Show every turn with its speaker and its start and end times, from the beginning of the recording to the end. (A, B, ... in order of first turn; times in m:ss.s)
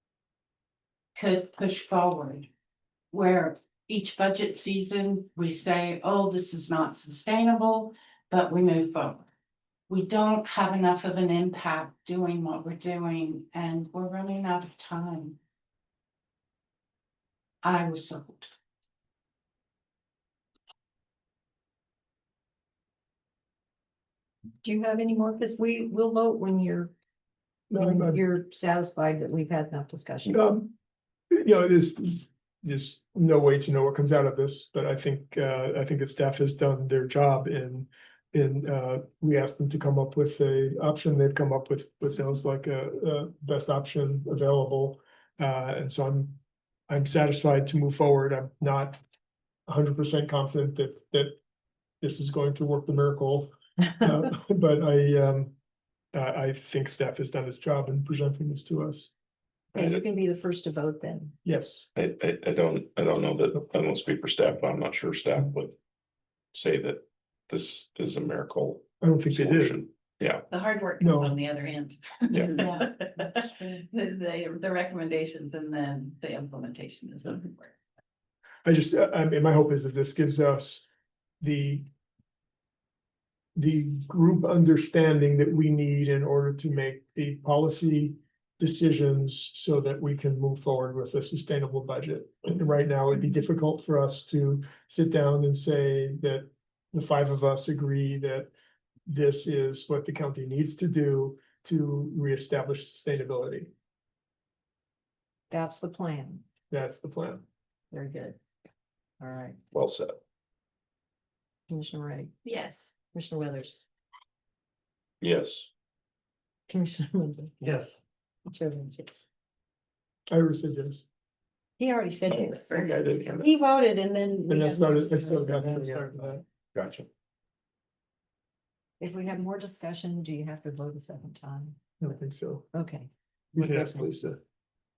0:01.2-0:02.5 A
0:03.1-0:09.3 A
0:09.9-0:15.4 A
0:17.6-0:18.5 A
0:24.6-0:26.9 B
0:27.7-0:28.2 C
0:27.8-0:30.4 B
0:30.3-0:30.7 C
0:31.3-0:49.0 C
0:49.7-0:51.4 C
0:52.0-0:55.6 C
0:56.1-0:59.1 C
0:59.7-1:01.4 B
0:59.8-1:00.0 D
1:01.4-1:01.9 C
1:02.0-1:05.8 D
1:06.5-1:10.5 D
1:09.0-1:09.8 C
1:10.5-1:17.7 E
1:11.0-1:11.4 C
1:12.5-1:12.9 A
1:18.6-1:20.9 C
1:21.4-1:21.9 C
1:23.6-1:38.5 C
1:39.1-1:43.7 C
1:45.5-1:46.4 B
1:46.7-1:47.4 C
1:47.9-1:48.4 B
1:49.2-1:49.6 B
1:49.7-1:50.2 D
1:51.7-1:52.4 B
1:52.5-1:52.8 E
1:53.1-1:53.8 B
1:55.2-1:55.7 D
1:56.7-1:57.8 B
1:58.5-1:59.2 B
2:00.3-2:01.1 C
2:01.8-2:06.4 B
2:02.3-2:03.5 D
2:04.5-2:06.4 C
2:06.8-2:07.1 D
2:09.0-2:11.8 B
2:12.0-2:12.7 C
2:12.7-2:14.1 B
2:13.6-2:14.4 C